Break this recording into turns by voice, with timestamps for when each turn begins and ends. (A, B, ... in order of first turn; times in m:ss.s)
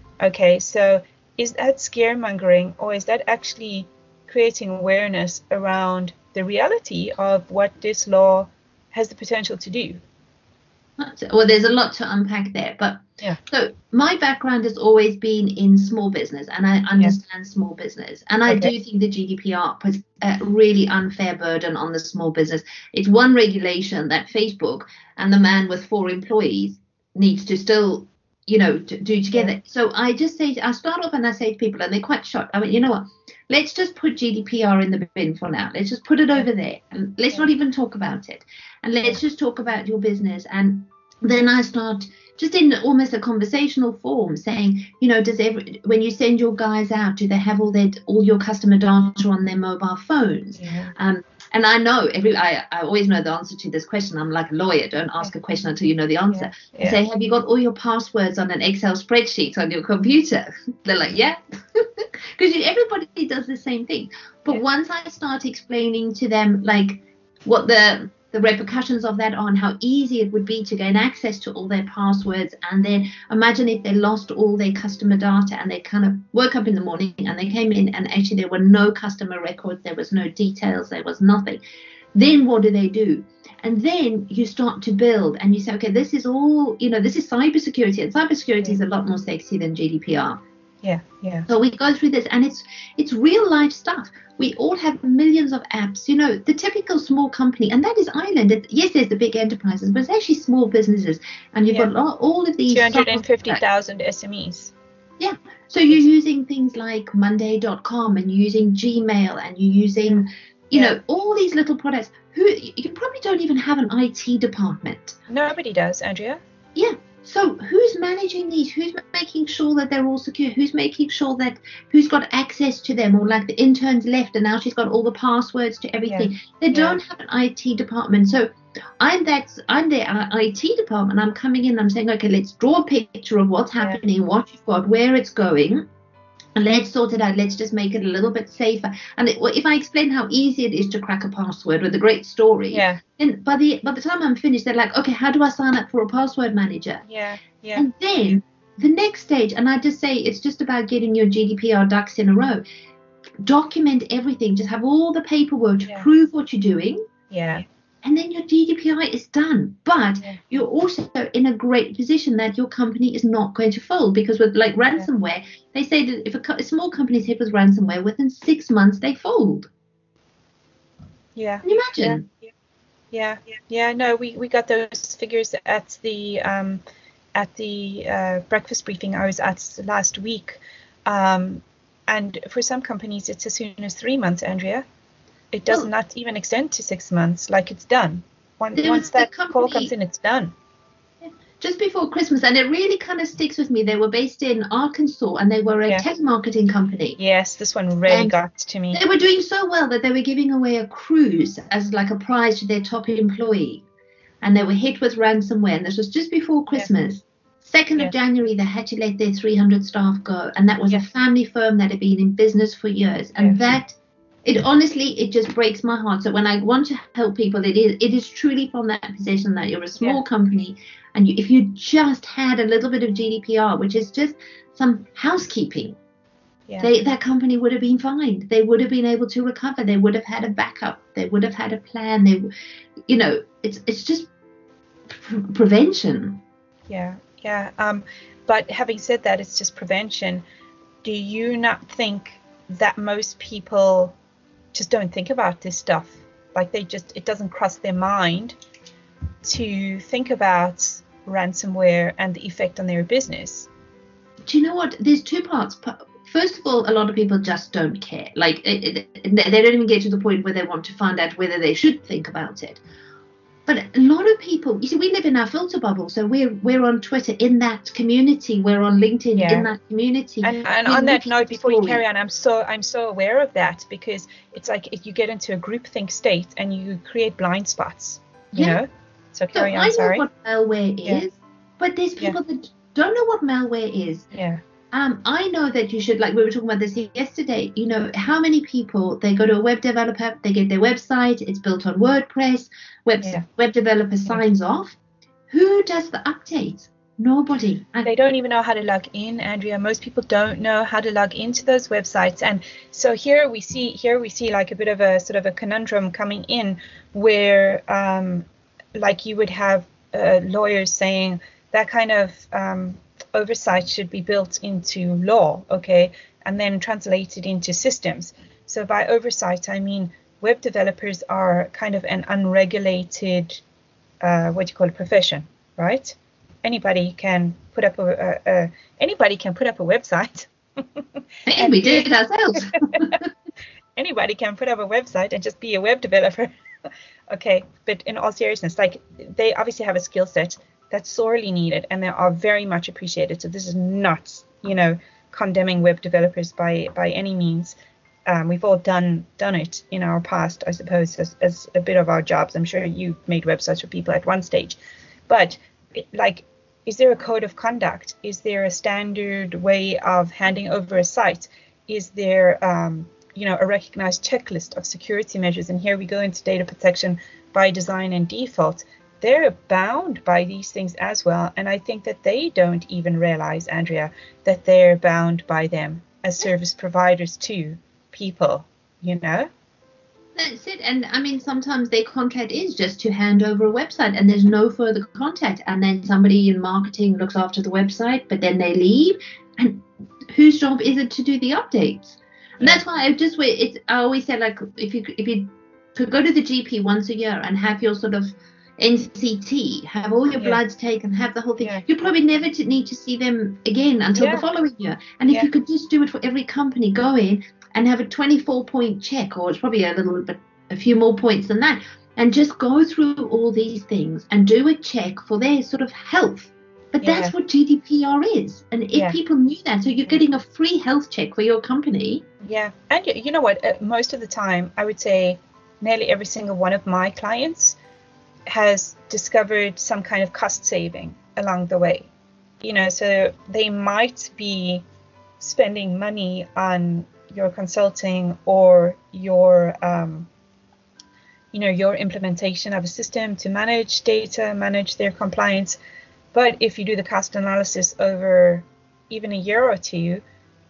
0:00.2-0:10.0 A
0:11.0-1:21.6 B
0:18.5-0:18.7 A
0:50.6-0:50.9 A
0:56.3-0:57.0 A
1:22.1-1:30.4 B
1:30.8-1:31.5 A
1:31.5-1:43.6 B
1:42.7-1:44.7 A
1:45.2-1:55.2 B
1:55.3-1:56.4 A
1:56.8-2:15.9 B
2:06.1-2:07.0 A
2:16.6-2:27.0 B
2:22.7-2:23.0 A
2:27.0-2:27.9 A
2:27.8-2:32.6 B
2:33.4-2:37.0 B
2:37.3-2:37.6 A
2:38.0-2:49.7 B
2:51.4-2:52.5 A
2:51.6-2:52.2 B
2:53.1-2:56.8 A
2:57.3-3:04.8 A
3:05.5-3:10.5 A
3:08.8-3:09.9 B
3:11.2-3:17.2 B
3:17.2-3:19.0 A
3:18.1-3:18.3 B
3:18.9-3:23.8 B
3:24.4-3:46.0 B
3:33.4-3:33.6 A
3:46.8-3:52.5 B
3:53.1-3:54.3 B
3:55.1-3:56.4 B
3:56.9-4:00.4 A
4:01.0-4:04.1 A
4:04.7-4:08.5 A
4:09.4-4:13.7 A
4:14.5-4:22.8 B
4:23.7-4:32.0 B
4:29.4-4:29.7 A
4:30.4-4:40.2 A
4:39.5-4:44.2 B
4:44.3-4:44.6 A
4:44.9-4:55.0 B
4:55.5-4:58.1 B
4:58.0-5:08.4 A
5:09.0-5:23.6 A
5:24.2-5:33.2 A
5:31.5-5:33.3 B
5:34.0-5:36.5 A
5:37.3-5:47.7 A
5:48.3-5:54.8 A
5:55.3-6:19.5 A
6:20.4-7:02.2 B
6:41.6-6:41.8 A
6:44.1-6:44.4 A
6:57.0-6:57.3 A
7:02.4-7:07.8 A
7:08.5-7:12.1 A
7:12.6-7:14.8 A
7:15.4-7:20.3 A
7:21.5-7:25.8 A
7:26.3-7:30.2 A